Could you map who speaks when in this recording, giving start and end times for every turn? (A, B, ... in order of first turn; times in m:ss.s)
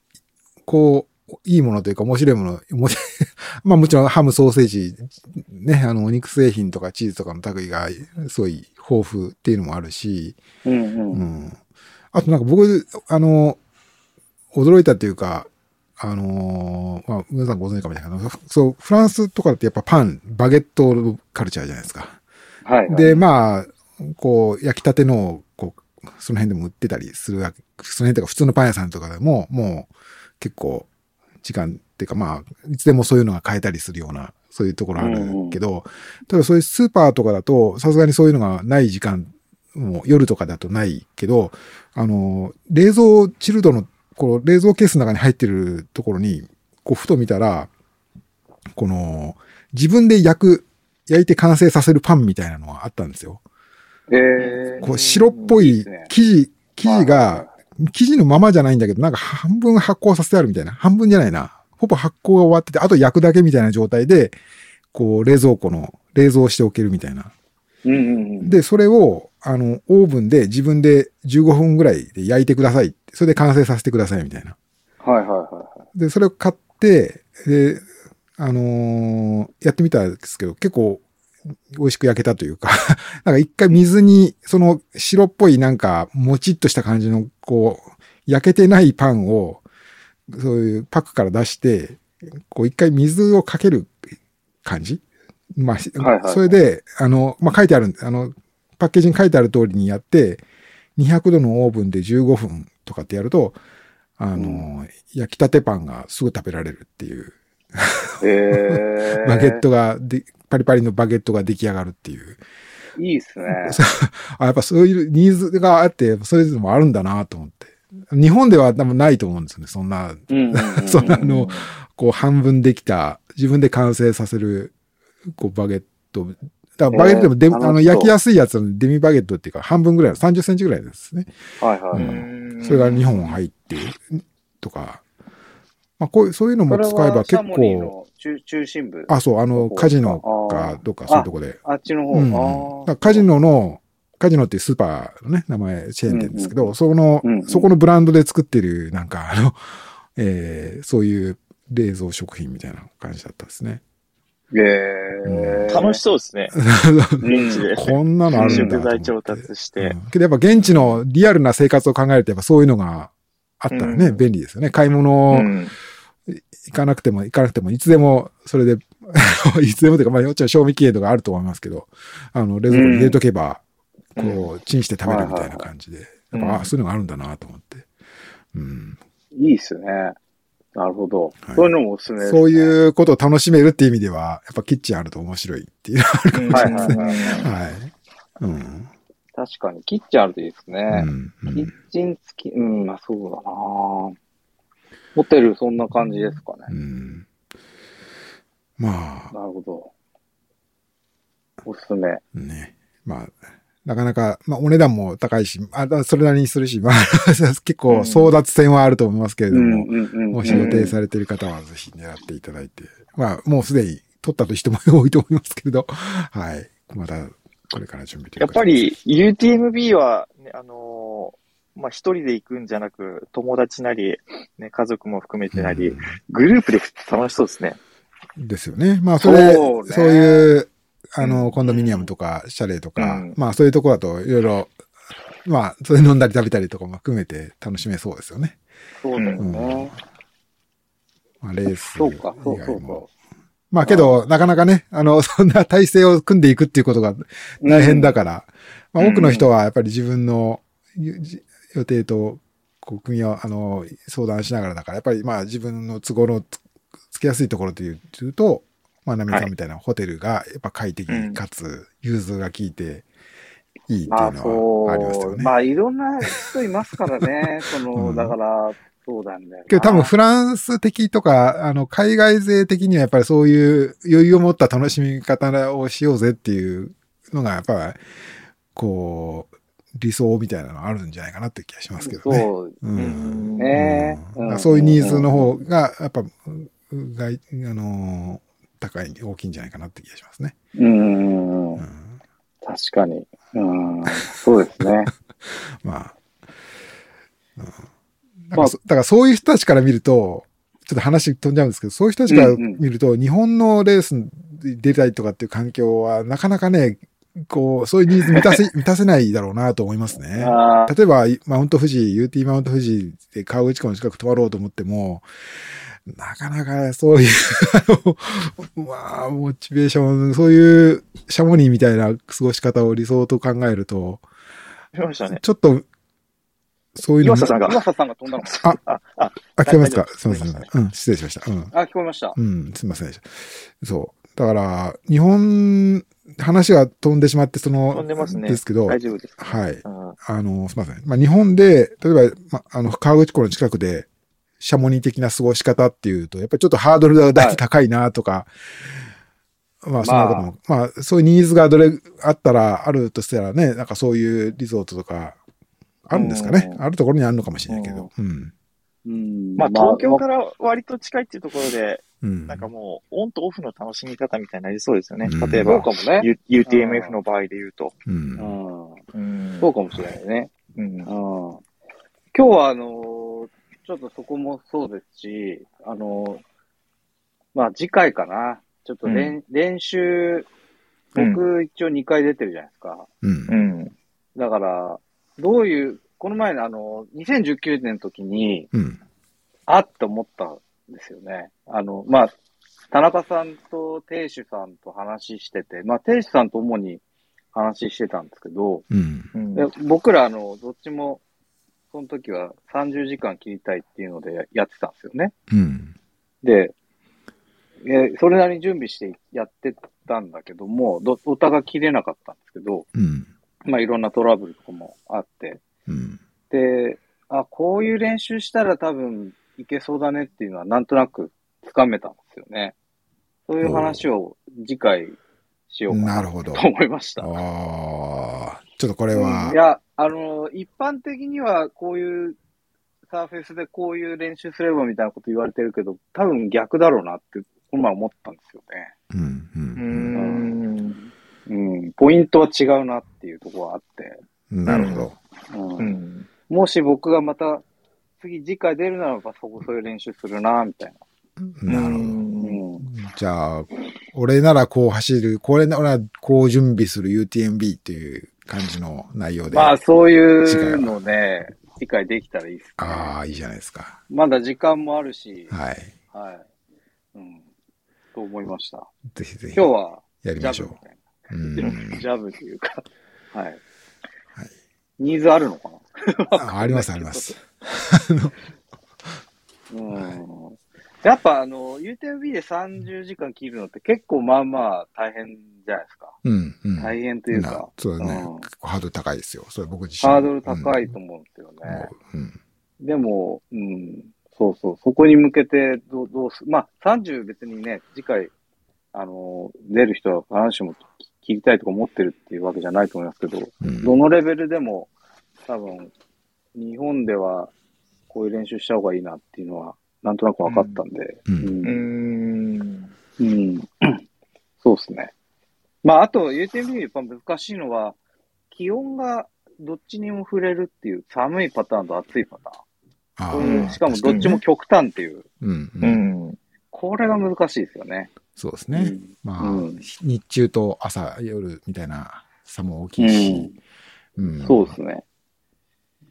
0:00.6-0:10.4 A
0:10.6-0:11.2 B
0:11.1-0:11.6 A
0:12.1-0:13.6 A
0:14.5-0:22.2 A
0:22.6-0:23.2 B
0:22.9-0:30.9 A
0:31.4-0:47.7 A
0:35.0-0:35.6 B
0:48.8-0:53.4 A
0:54.1-0:54.8 B
0:54.5-0:55.6 C
0:54.8-1:04.3 A
0:55.5-0:56.1 B
0:56.8-0:57.5 B
1:04.9-1:07.3 A
1:07.8-1:08.6 B
1:08.4-1:14.6 A
1:15.0-1:15.8 B
1:15.9-1:17.8 A
1:18.4-1:21.0 A
1:21.7-1:29.6 A
1:30.3-1:34.0 A
1:34.6-1:35.0 A
1:35.5-1:40.4 A
1:36.0-1:36.6 B
1:41.0-1:43.6 A
1:44.2-1:52.4 A
1:44.3-1:44.6 B
1:48.2-1:49.6 B
1:53.0-1:53.8 B
1:53.4-2:04.7 A
2:00.3-2:01.6 B
2:05.3-2:11.3 A
2:06.9-2:08.1 B
2:11.6-2:12.2 B
2:11.9-2:15.0 A
2:12.0-2:13.3 C
2:16.0-2:17.9 A
2:16.7-2:23.2 B
2:19.1-2:21.6 A
2:22.1-2:29.6 A
2:26.1-2:26.7 B
2:27.2-2:27.7 B
2:30.1-2:33.8 A
2:34.5-2:36.0 B
2:35.2-2:35.7 A
2:35.7-2:36.6 C
2:36.5-2:45.5 A
2:37.2-2:37.7 B
2:37.2-2:40.0 C
2:38.4-2:38.8 B
2:40.6-2:41.0 C
2:43.7-2:44.2 C
2:45.3-2:45.7 C
2:46.3-2:53.6 A
2:52.7-2:53.2 B
2:54.2-2:54.5 C
2:54.2-2:57.9 A
2:55.0-2:55.7 B
2:56.3-2:56.7 C
2:58.5-2:59.0 A
2:59.3-3:00.2 B
3:00.7-3:02.8 B
3:01.4-3:01.7 A
3:02.2-3:08.9 A
3:06.3-3:07.5 C
3:06.5-3:07.5 B
3:09.3-3:14.2 B
3:10.9-3:11.7 A
3:15.2-3:16.7 B
3:16.7-3:17.3 A
3:18.8-3:19.3 A
3:19.3-3:19.9 B
3:21.6-3:22.2 B
3:22.3-3:38.8 A
3:27.9-3:28.3 C
3:29.5-3:30.9 B
3:30.5-3:30.9 C
3:38.4-3:47.8 C
3:45.5-3:46.2 A
3:48.4-3:54.7 A
3:49.2-3:50.5 B
3:51.2-3:52.1 C
3:53.0-3:53.4 C
3:55.4-3:58.6 A
3:59.0-3:59.9 B
3:59.1-3:59.4 C
3:59.4-3:59.9 A
4:01.4-4:03.1 A
4:01.9-4:03.1 B
4:03.7-4:16.6 A
4:03.8-4:04.1 B
4:07.6-4:08.1 B
4:09.0-4:09.4 C
4:17.1-4:23.0 A
4:21.1-4:21.4 C
4:23.9-4:25.5 A
4:24.1-4:30.1 B
4:27.9-4:28.4 A
4:29.7-4:38.0 A
4:38.7-4:50.5 A
4:42.0-4:42.8 B
4:43.0-4:43.7 C
4:43.6-4:45.5 B
4:50.8-4:51.8 B
4:51.8-4:52.2 A
4:52.6-4:55.1 B
4:55.4-4:56.2 A
4:57.6-4:57.8 A
4:58.5-5:24.2 A
5:02.3-5:02.8 B
5:08.3-5:08.6 B
5:10.4-5:10.9 B
5:24.9-5:25.4 C
5:25.3-5:25.8 A
5:27.0-5:27.6 A
5:27.2-5:27.8 C
5:27.4-5:28.5 B
5:28.4-5:30.7 C
5:29.6-5:31.7 A
5:31.7-5:32.4 B
5:32.3-5:44.1 A
5:37.9-5:40.2 C
5:44.6-5:49.0 A
5:47.3-5:47.6 B
5:49.8-5:55.4 A
5:50.0-5:50.5 B
5:56.0-5:58.5 A
5:56.1-5:56.8 C
5:57.7-5:58.1 C
5:59.0-6:00.2 B
5:59.6-6:07.9 C
6:02.2-6:02.7 A
6:05.2-6:05.8 A
6:05.6-6:07.2 B
6:08.0-6:08.5 A
6:08.4-6:09.0 B
6:09.1-6:09.7 C
6:09.6-6:10.5 B
6:10.8-6:11.1 C
6:11.0-6:11.6 B
6:12.3-6:16.4 B
6:17.5-6:20.5 B
6:19.0-6:19.4 C
6:21.1-6:23.1 B
6:21.2-6:21.4 C
6:23.2-6:23.6 A
6:23.5-6:23.9 C
6:24.4-6:28.7 B
6:28.7-6:29.0 A
6:29.7-6:32.3 B
6:32.9-6:38.8 B
6:38.9-6:39.3 A
6:39.3-6:39.7 C
6:39.5-6:41.2 B
6:41.9-6:45.3 B
6:45.5-6:45.9 A
6:46.4-6:46.7 B
6:47.8-6:52.9 B
6:52.9-6:53.3 A
6:53.6-6:55.6 B
6:55.9-6:56.2 A
6:56.5-7:02.7 B
7:03.5-7:05.2 B
7:03.6-7:04.0 A
7:05.7-7:07.3 B
7:05.9-7:06.6 A
7:07.2-7:09.6 A
7:09.1-7:12.4 B
7:13.1-7:18.9 B
7:19.1-7:20.2 A
7:19.8-7:21.0 C
7:20.1-7:20.5 B
7:21.5-7:24.2 B
7:24.5-7:25.2 A
7:24.7-7:25.1 C
7:25.5-7:25.9 B
7:25.8-7:26.3 C
7:26.5-7:27.6 B
7:28.2-7:31.0 B
7:31.4-7:32.2 A
7:31.7-7:32.6 C
7:32.4-7:32.8 B
7:32.8-7:39.8 A
7:39.5-7:43.1 B
7:40.4-7:41.0 A
7:42.8-7:44.0 A
7:44.1-7:45.5 B
7:45.5-7:45.9 A
7:46.1-7:46.4 B
7:47.1-7:47.4 B
7:48.1-7:48.9 B
7:49.1-7:49.7 A
7:49.5-7:53.6 B
7:50.2-7:50.8 A
7:51.3-7:52.0 A
7:55.0-7:57.4 B
7:56.4-7:58.3 A
7:59.7-8:06.2 B
7:59.9-8:00.2 A
8:06.2-8:10.9 A
8:06.8-8:08.5 B
8:10.0-8:11.9 B
8:11.6-8:12.4 A
8:12.8-8:18.3 B
8:18.9-8:24.9 B
8:23.6-8:24.0 A
8:25.5-8:25.9 B
8:26.5-8:27.5 B
8:28.1-8:31.8 B
8:30.4-8:30.8 C
8:31.3-8:31.6 A
8:31.6-8:32.9 C
8:33.2-8:34.0 B
8:34.6-8:35.1 B
8:35.8-8:38.0 B
8:38.5-8:42.6 B
8:43.2-8:44.4 A
8:43.3-8:45.2 B
8:43.4-8:44.4 C
8:45.4-8:46.0 A
8:45.8-8:46.4 C
8:46.7-8:48.1 B
8:48.4-8:53.5 A
8:48.7-8:49.8 B
8:53.0-8:53.5 B
8:54.2-8:54.7 A
8:54.4-8:55.0 B